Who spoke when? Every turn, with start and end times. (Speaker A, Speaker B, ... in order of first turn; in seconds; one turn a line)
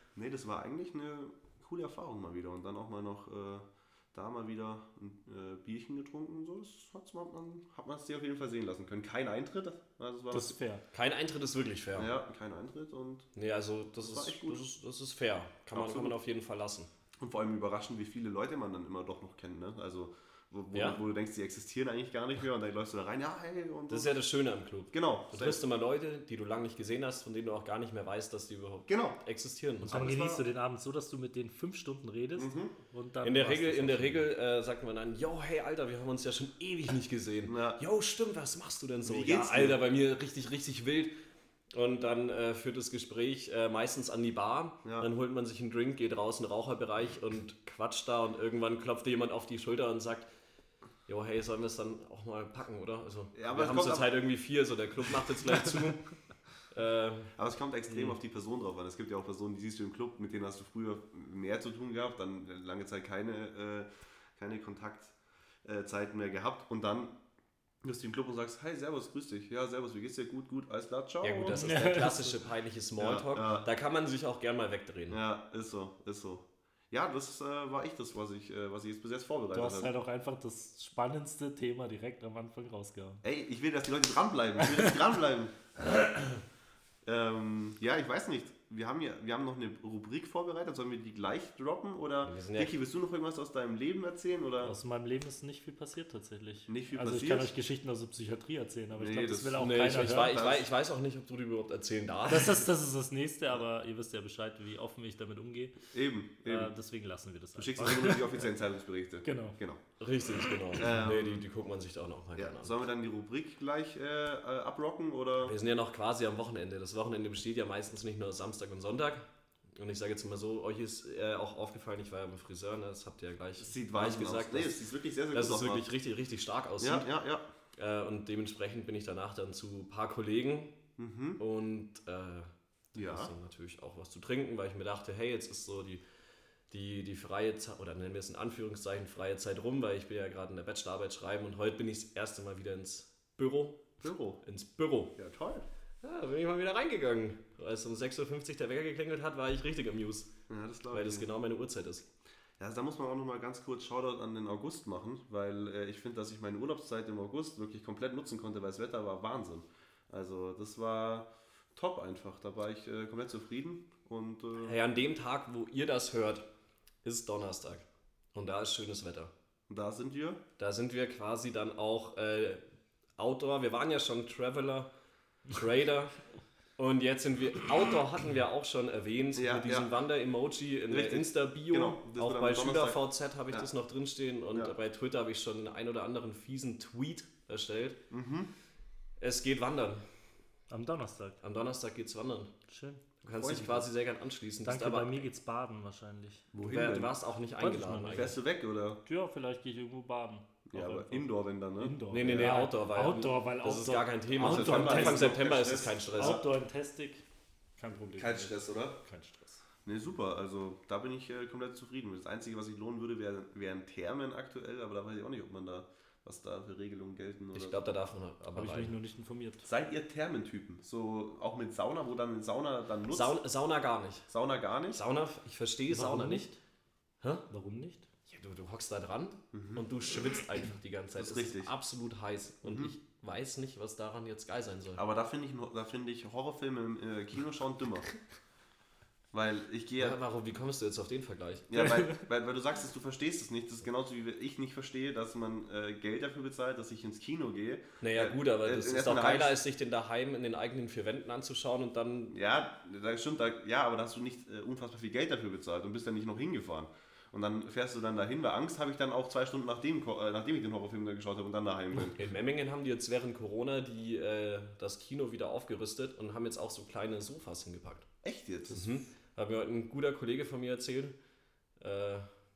Speaker A: 0.1-10.6
Speaker B: 10.3-10.8
Speaker C: 10.9-12.1
Speaker A: 11.9-13.3
Speaker C: 13.3-16.9
Speaker A: 14.0-14.6
Speaker A: 15.7-16.1
Speaker A: 17.2-24.1
Speaker C: 20.7-21.0
Speaker C: 23.9-30.1
Speaker A: 24.9-25.6
Speaker A: 28.9-29.2
Speaker A: 29.9-30.4
Speaker B: 29.9-34.3
Speaker A: 32.4-32.7
Speaker C: 33.2-41.1
Speaker A: 37.5-37.8
Speaker A: 39.0-39.8
Speaker C: 41.7-50.3
Speaker C: 51.1-56.0
Speaker A: 53.3-54.1
Speaker C: 56.7-57.3
Speaker A: 57.4-67.1
Speaker C: 57.9-58.1
Speaker A: 67.8-71.7
Speaker C: 71.2-75.2
Speaker B: 71.5-72.4
Speaker A: 73.0-73.7
Speaker A: 75.1-79.9
Speaker B: 79.5-83.2
Speaker A: 83.2-85.7
Speaker A: 87.0-94.7
Speaker C: 92.2-92.8
Speaker B: 94.6-100.4
Speaker A: 96.7-97.5
Speaker A: 98.9-100.7
Speaker C: 99.6-102.7
Speaker B: 102.3-105.8
Speaker A: 105.9-106.7
Speaker B: 106.4-108.4
Speaker A: 107.5-109.8
Speaker B: 109.2-109.6
Speaker C: 110.0-112.8
Speaker A: 110.7-111.4
Speaker A: 112.3-115.5
Speaker C: 115.4-127.1
Speaker A: 123.6-125.9
Speaker A: 126.8-127.4
Speaker C: 127.7-130.8
Speaker A: 131.0-131.4
Speaker C: 131.4-136.0
Speaker A: 132.9-133.3
Speaker C: 136.7-145.1
Speaker A: 144.0-144.4
Speaker A: 145.2-145.6
Speaker C: 146.0-150.3
Speaker A: 150.5-151.3
Speaker C: 150.9-152.1
Speaker A: 152.6-164.8
Speaker C: 164.6-166.4
Speaker C: 167.0-169.3
Speaker A: 169.7-170.4
Speaker C: 170.6-172.6
Speaker C: 173.2-174.9
Speaker C: 175.5-176.1
Speaker C: 176.8-188.0
Speaker A: 179.3-179.9
Speaker A: 180.9-183.7
Speaker A: 188.1-188.5
Speaker C: 189.2-190.0
Speaker B: 190.7-191.4
Speaker C: 191.4-192.5
Speaker B: 192.7-193.0
Speaker C: 193.2-195.2
Speaker A: 193.4-193.9
Speaker B: 194.6-196.5
Speaker A: 196.5-197.1
Speaker C: 196.6-198.3
Speaker B: 197.6-198.3
Speaker A: 198.1-199.0
Speaker B: 199.0-205.3
Speaker A: 200.7-202.6
Speaker C: 202.1-206.4
Speaker A: 204.4-206.4
Speaker B: 206.1-207.2
Speaker B: 207.8-209.6
Speaker A: 208.2-209.0
Speaker A: 209.8-217.8
Speaker C: 217.5-218.9
Speaker B: 218.6-219.7
Speaker A: 219.6-223.3
Speaker C: 223.1-224.3
Speaker A: 224.3-225.0
Speaker C: 224.9-226.5
Speaker B: 225.9-226.6
Speaker B: 227.5-228.1
Speaker C: 228.3-235.0
Speaker A: 229.5-229.8
Speaker A: 231.2-231.7
Speaker A: 232.6-232.9
Speaker A: 234.9-238.1
Speaker A: 239.3-240.2
Speaker C: 240.0-241.8
Speaker A: 241.7-249.6
Speaker C: 248.0-252.3
Speaker A: 252.3-262.2
Speaker C: 262.1-268.1
Speaker A: 268.2-269.0
Speaker C: 268.7-271.1
Speaker C: 271.8-272.3